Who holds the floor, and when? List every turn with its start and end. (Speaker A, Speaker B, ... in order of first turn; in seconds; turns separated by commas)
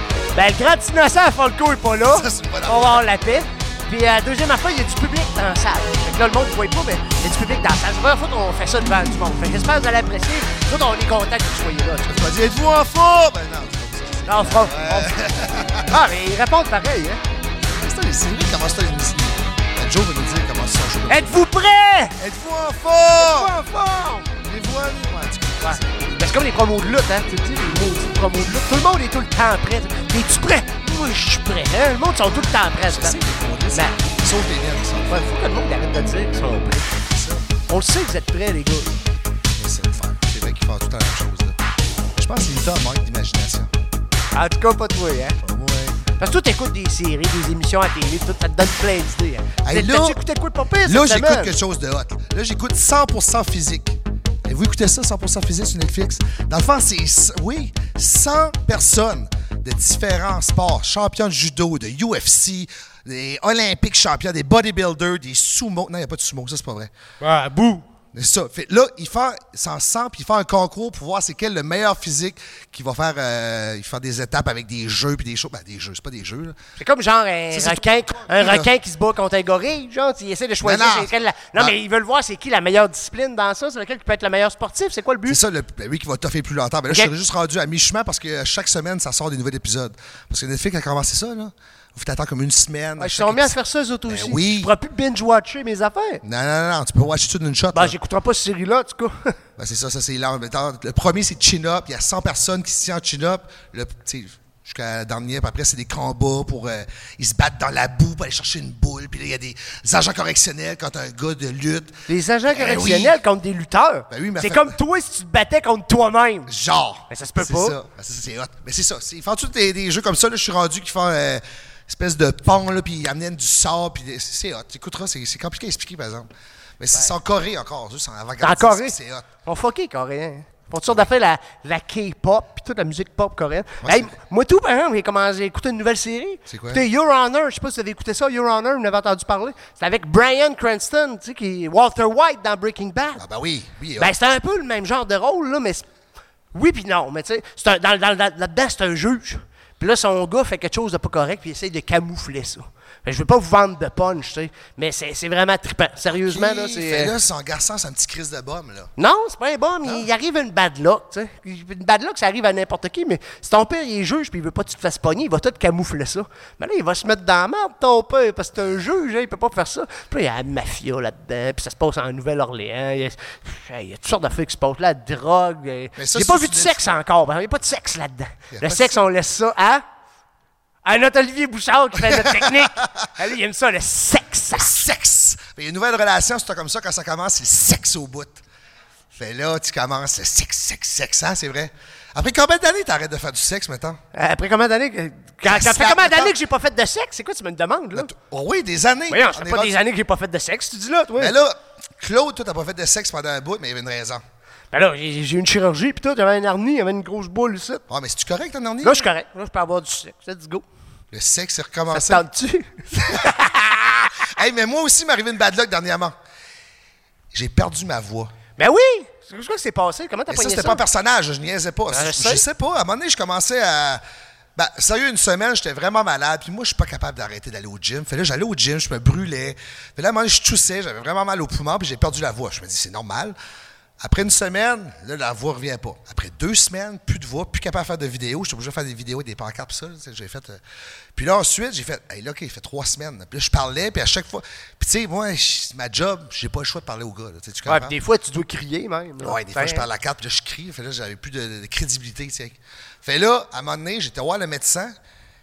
Speaker A: 0.3-12.1, Speaker B: 2.1-3.0, Speaker B: 12.1-15.9, Speaker A: 14.3-15.2, Speaker A: 15.9-17.2, Speaker B: 17.6-21.4, Speaker A: 21.1-22.2, Speaker B: 22.2-23.6, Speaker A: 23.2-24.3, Speaker B: 24.3-26.1, Speaker A: 25.6-33.2, Speaker B: 32.8-35.2, Speaker A: 33.7-34.0, Speaker A: 35.1-36.9, Speaker B: 37.1-37.5, Speaker A: 37.7-39.0, Speaker B: 39.5-41.6, Speaker B: 42.2-43.7, Speaker A: 44.3-45.4, Speaker B: 45.4-46.0, Speaker A: 46.2-51.5, Speaker B: 49.6-50.2, Speaker B: 50.8-66.9, Speaker A: 67.2-67.8, Speaker B: 68.1-76.6, Speaker A: 76.8-85.4, Speaker B: 77.5-78.7, Speaker B: 80.6-81.7, Speaker B: 85.3-93.5, Speaker A: 93.0-96.2, Speaker B: 94.1-94.7, Speaker B: 96.2-97.9, Speaker A: 97.7-99.4, Speaker B: 99.6-113.2, Speaker A: 112.1-116.5, Speaker B: 114.1-114.8, Speaker B: 116.5-129.3, Speaker A: 117.1-117.8, Speaker A: 128.4-143.2, Speaker B: 133.8-134.1, Speaker B: 136.5-136.8, Speaker B: 143.2-144.1, Speaker A: 144.0-145.8, Speaker A: 146.5-157.1, Speaker B: 156.2-158.9, Speaker A: 159.0-179.8, Speaker B: 175.9-176.9, Speaker B: 178.5-179.0, Speaker A: 180.8-184.8, Speaker B: 182.1-183.1, Speaker B: 184.5-188.4, Speaker B: 189.2-194.0, Speaker A: 194.1-198.1, Speaker B: 195.4-196.3, Speaker B: 197.9-199.7, Speaker A: 199.1-201.3, Speaker B: 201.2-204.2, Speaker A: 204.7-207.8, Speaker B: 207.9-209.1, Speaker A: 208.8-210.6, Speaker B: 211.1-212.2, Speaker A: 211.9-214.1, Speaker B: 213.0-213.3, Speaker B: 214.2-216.1, Speaker B: 217.3-218.3, Speaker A: 218.6-220.8, Speaker B: 220.3-224.0, Speaker A: 221.9-222.4, Speaker B: 224.6-233.3, Speaker B: 234.0-240.6, Speaker B: 241.1-247.9, Speaker A: 247.7-249.8, Speaker B: 249.2-254.9